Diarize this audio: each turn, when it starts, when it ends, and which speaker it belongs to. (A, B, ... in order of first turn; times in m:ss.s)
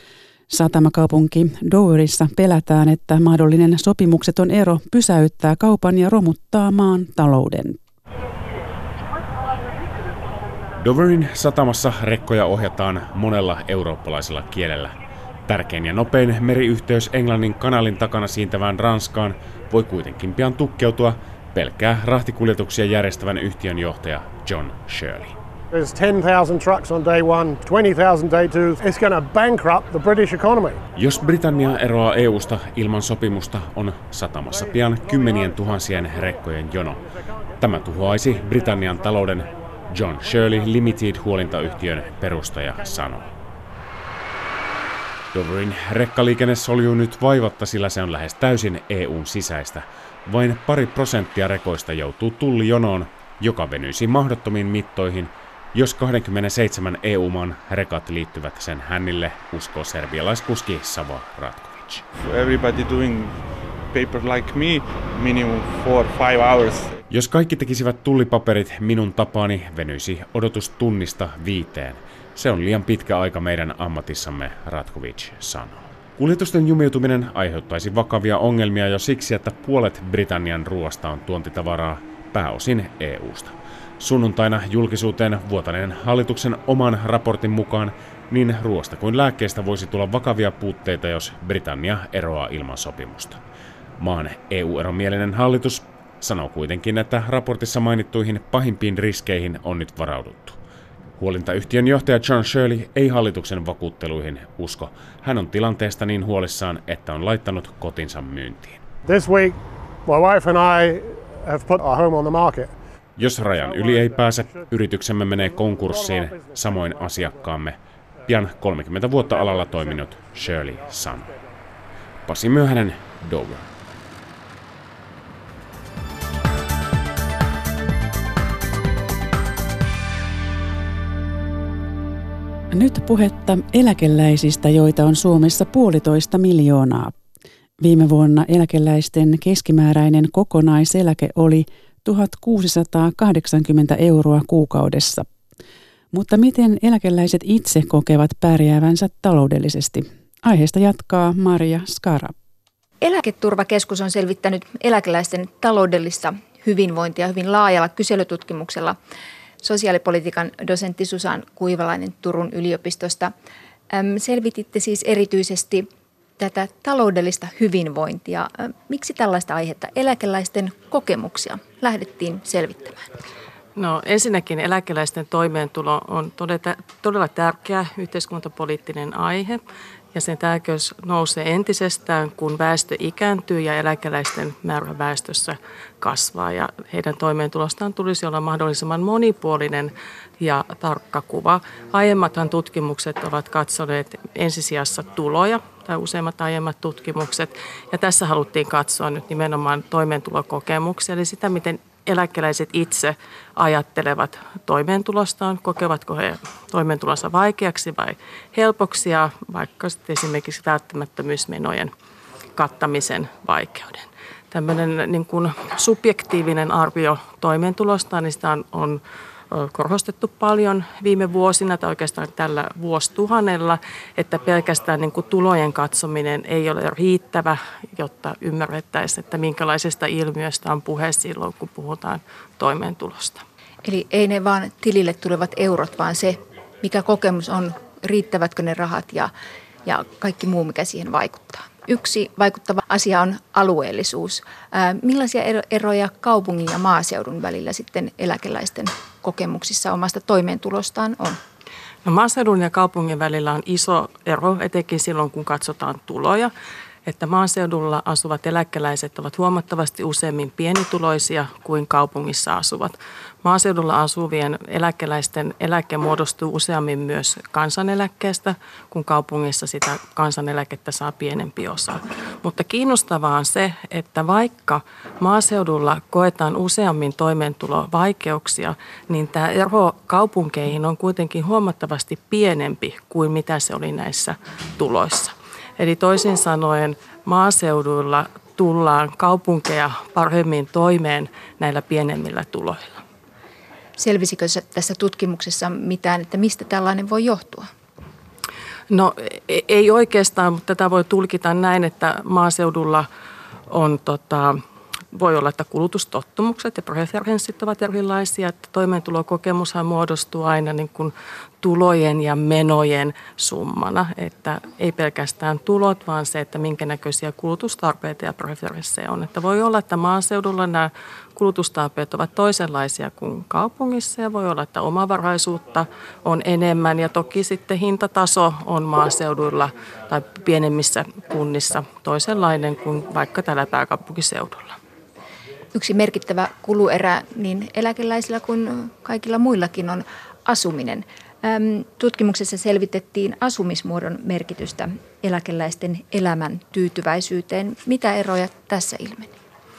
0:00.5-0:07.8 A
0:10.8-0:14.9 B
0:15.4-0:25.4 B
0:25.7-0:30.9 C
0:30.9-0:37.1 B
0:37.6-0:43.3 B
0:45.3-1:02.0 B
1:02.1-1:07.0 D
1:07.1-1:33.4 B
1:34.0-1:40.6 B
1:41.2-1:48.8 B
1:49.0-1:52.7 C
1:53.2-2:01.3 B
2:02.2-2:03.7 B
2:12.7-2:17.1 A
2:17.8-2:25.3 A
2:26.1-2:32.3 A
2:33.0-2:39.0 E
2:39.6-2:43.3 E
2:43.9-2:45.9 E
2:46.4-2:53.0 E
2:53.8-2:59.6 F
3:00.1-3:31.9 F
3:32.6-3:39.0 F
3:39.5-3:53.4 F
3:53.8-3:59.3 E
3:59.8-4:11.4 E
4:12.0-4:16.5 F
4:17.0-4:53.0 F
4:54.0-4:57.7 E
4:58.9-5:03.1 F
5:03.7-5:04.6 F
5:05.1-5:34.8 F
5:35.7-5:49.3 E